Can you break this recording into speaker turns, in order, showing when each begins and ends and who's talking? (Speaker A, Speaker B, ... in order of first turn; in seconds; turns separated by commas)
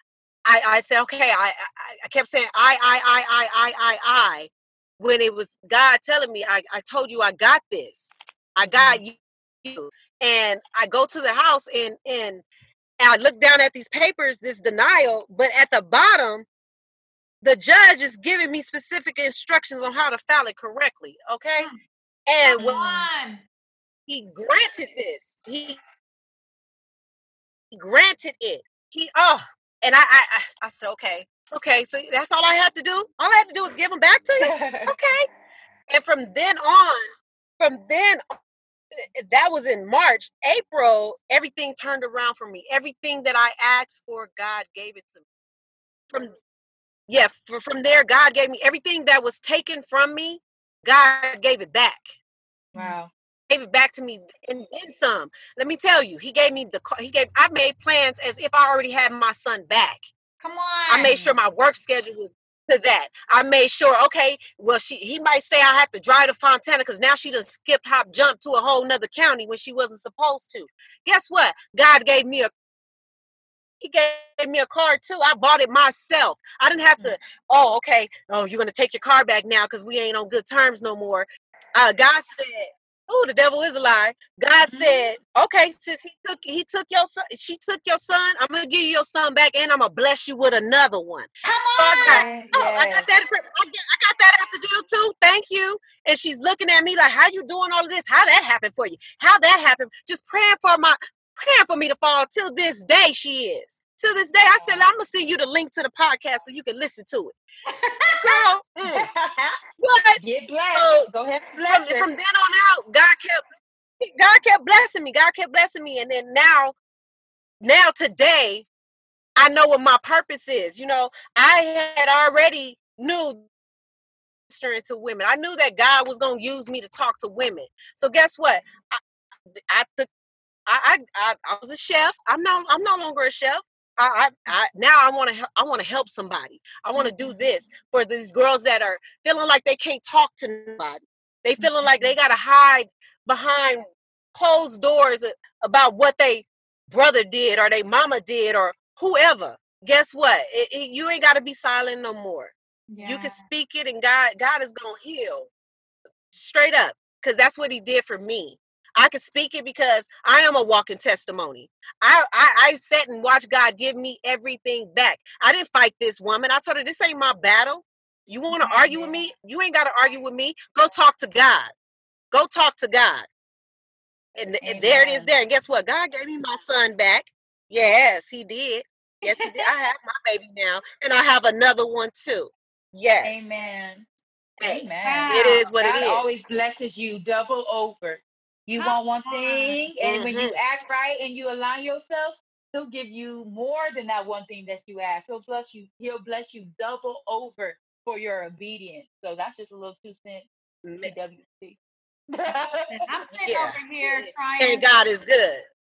Speaker A: 0.5-12.4, Speaker B: 8.7-9.0, Speaker A: 13.0-16.5, Speaker A: 17.4-21.7, Speaker A: 22.3-23.1, Speaker C: 22.4-23.4, Speaker A: 24.1-25.8, Speaker A: 27.7-35.3, Speaker B: 34.4-35.0, Speaker A: 35.9-37.1, Speaker A: 37.6-38.2, Speaker A: 38.9-45.2, Speaker A: 46.1-46.4, Speaker A: 47.1-52.1, Speaker B: 52.7-53.1, Speaker A: 53.5-60.1, Speaker C: 60.4-61.1, Speaker A: 60.9-72.5, Speaker B: 61.0-61.4, Speaker A: 73.8-107.3, Speaker B: 84.7-85.1, Speaker C: 91.5-92.3, Speaker B: 92.0-93.1, Speaker B: 104.5-104.8, Speaker C: 107.7-108.5, Speaker A: 108.2-109.1, Speaker B: 108.8-109.6, Speaker A: 109.8-111.1, Speaker B: 110.2-112.1, Speaker A: 111.7-113.4, Speaker A: 114.0-116.8, Speaker A: 117.6-118.7, Speaker A: 119.4-123.5, Speaker A: 124.5-129.0, Speaker A: 129.5-130.1, Speaker A: 130.7-152.5, Speaker B: 137.0-137.3, Speaker C: 152.9-153.5, Speaker A: 153.0-155.5, Speaker A: 156.3-171.7, Speaker B: 168.5-169.2, Speaker A: 172.3-173.3, Speaker A: 174.4-183.5, Speaker B: 174.6-175.3, Speaker C: 179.3-179.7, Speaker B: 183.2-184.1, Speaker A: 184.6-186.3, Speaker B: 184.6-200.5, Speaker C: 185.0-185.6, Speaker C: 188.8-189.8, Speaker A: 190.0-190.6, Speaker A: 200.8-201.1, Speaker B: 201.0-201.8, Speaker B: 202.3-203.0, Speaker C: 202.9-204.9, Speaker A: 203.5-205.7